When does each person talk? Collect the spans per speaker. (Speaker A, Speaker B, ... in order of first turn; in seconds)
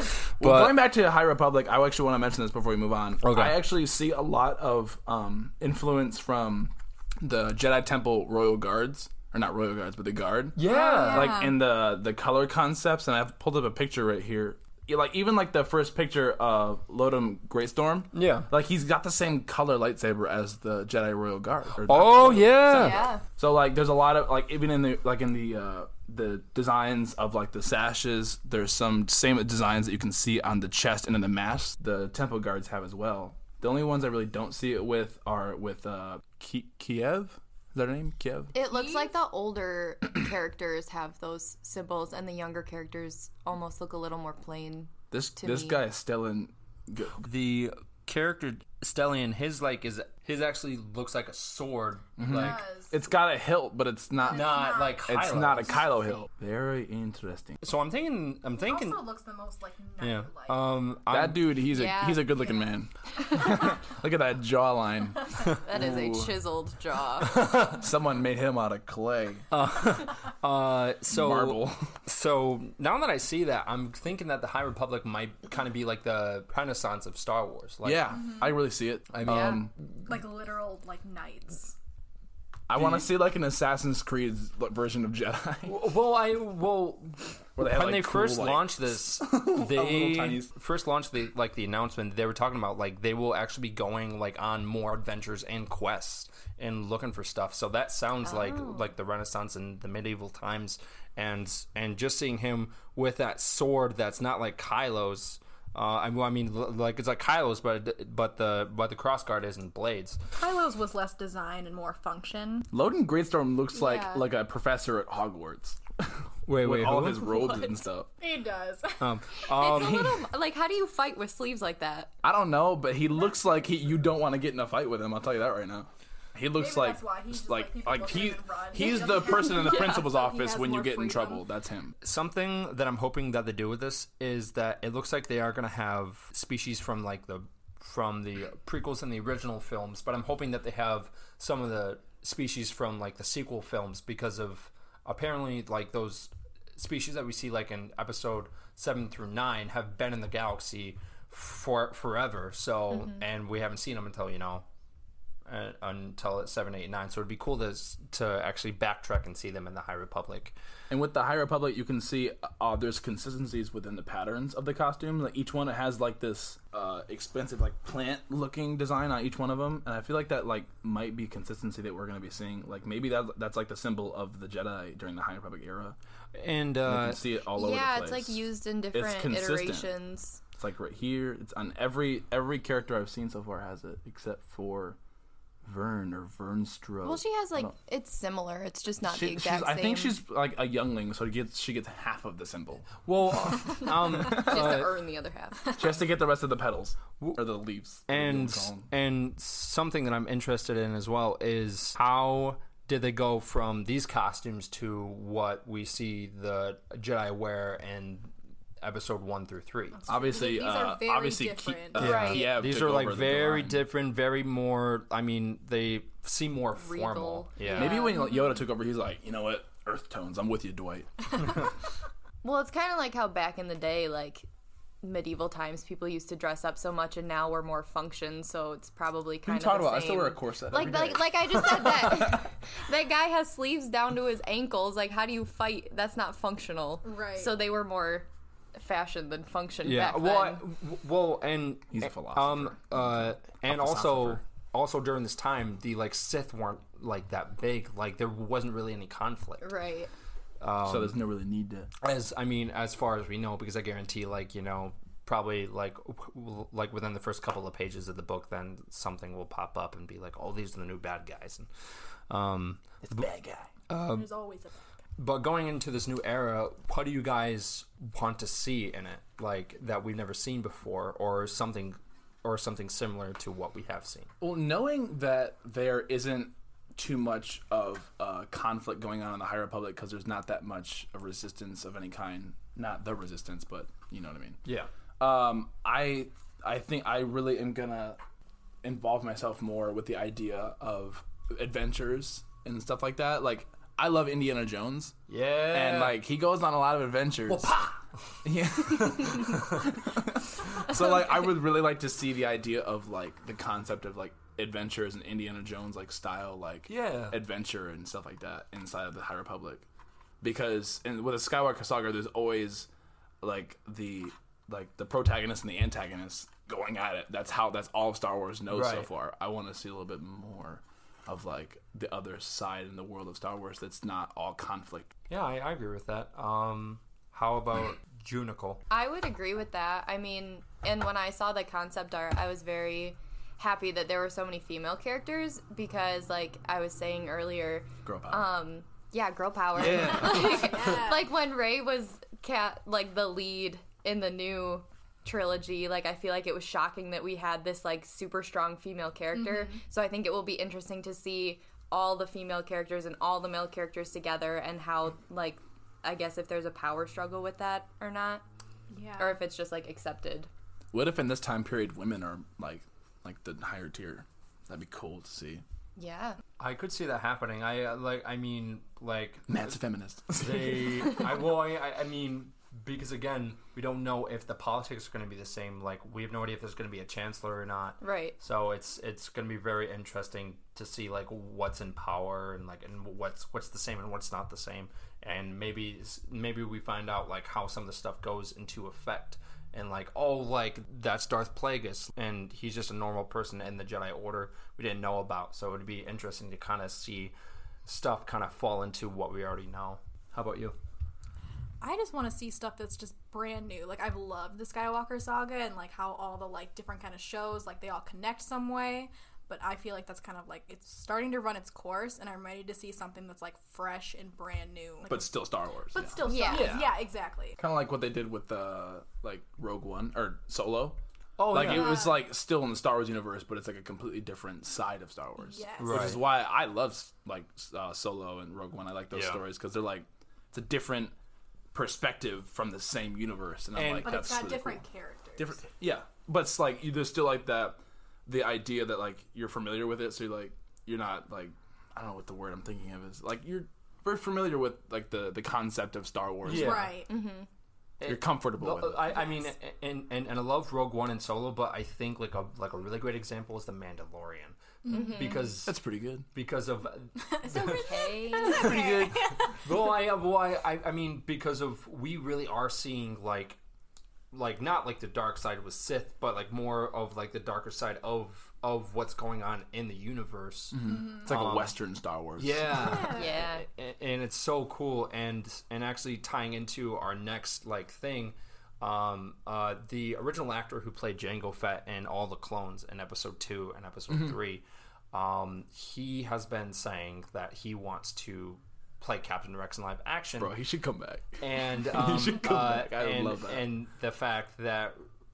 Speaker A: 0.4-0.8, 3.2-3.6, 10.6-11.4, 18.1-18.5, 21.8-23.1, 47.2-52.6, 54.3-55.9, 57.6-59.1, 60.0-61.6, 67.2-67.8, 69.5-78.2, 79.1-79.6, 85.7-110.2, 116.5-117.3, 119.0-120.2, 132.0-154.7, 155.4-160.6, 176.3-177.2, 193.0-194.9, 198.1-210.0, 211.9-218.0, 239.8-249.7, 250.6-251.2, 252.0-261.7, 262.3-263.2, 263.9-264.3, 265.2-274.3, 284.6-284.9, 295.3-296.2, 297.5-298.0, 298.9-299.8, 306.9-307.4, 318.7-319.1, 325.3-328.8, 339.8-340.9, 366.6-369.7, 370.3-397.3, 397.8-400.8, 416.5-417.0, 421.4-422.1, 425.8-426.2, 429.1-429.4, 433.8-434.4, 446.4-447.0, 448.0-455.8, 456.3-463.6, 464.3-471.8, 472.4-490.5, 491.4-495.0
Speaker B: 0.4-38.5, 45.1-47.2, 52.2-57.6, 61.1-66.3, 67.6-69.5, 71.1-71.9, 77.8-79.7, 82.7-85.8, 87.6-90.5, 112.7-115.8, 116.5-118.1, 122.2-132.0, 160.9-176.0, 176.8-179.9, 180.6-185.0, 185.7-187.7, 189.0-193.0, 195.7-198.9, 210.1-213.8, 217.7-221.6, 229.4-232.4, 241.9-244.4, 250.8-251.9, 263.0-263.7, 274.4-284.6, 285.2-288.2, 288.8-295.2, 295.7-297.8, 298.4-309.8, 310.4-312.9, 313.4-325.1, 338.1-338.5, 360.9-365.6, 369.5-371.2, 415.1-416.2, 417.6-421.0, 421.5-431.1, 431.7-434.8, 435.4-446.9, 448.0-449.2, 455.6-456.3, 458.6-459.2, 470.7-472.9, 490.4-493.7
Speaker C: 10.6-11.6, 22.8-23.2, 38.7-39.1, 52.3-53.0, 54.2-55.0, 58.6-60.6, 78.2-78.6, 80.0-81.8, 110.4-112.7, 118.2-119.0, 126.6-131.4, 209.9-212.1, 218.0-218.3, 237.0-237.5, 264.0-264.8, 340.1-341.3, 349.3-349.8, 358.9-359.4, 401.8-415.3, 415.9-417.6, 421.6-422.2, 425.4-426.2, 434.0-435.6, 446.5-447.1, 454.9-455.3, 457.3-459.6, 470.8-471.3, 472.7-473.4
Speaker D: 22.8-23.1, 38.5-45.8, 61.7-62.7, 63.2-63.6, 65.5-67.5, 79.2-79.6, 98.2-98.8, 113.7-114.3, 117.3-117.8, 119.5-122.1, 128.9-130.1, 177.6-180.4, 187.0-190.2, 194.1-195.8, 212.0-212.6, 216.8-218.3, 222.4-224.5, 225.0-240.6, 249.6-250.1, 328.9-358.4, 359.2-360.5, 365.9-366.4, 378.0-378.4, 416.2-416.8, 447.1-447.5, 454.9-455.5, 457.5-458.9, 473.0-473.7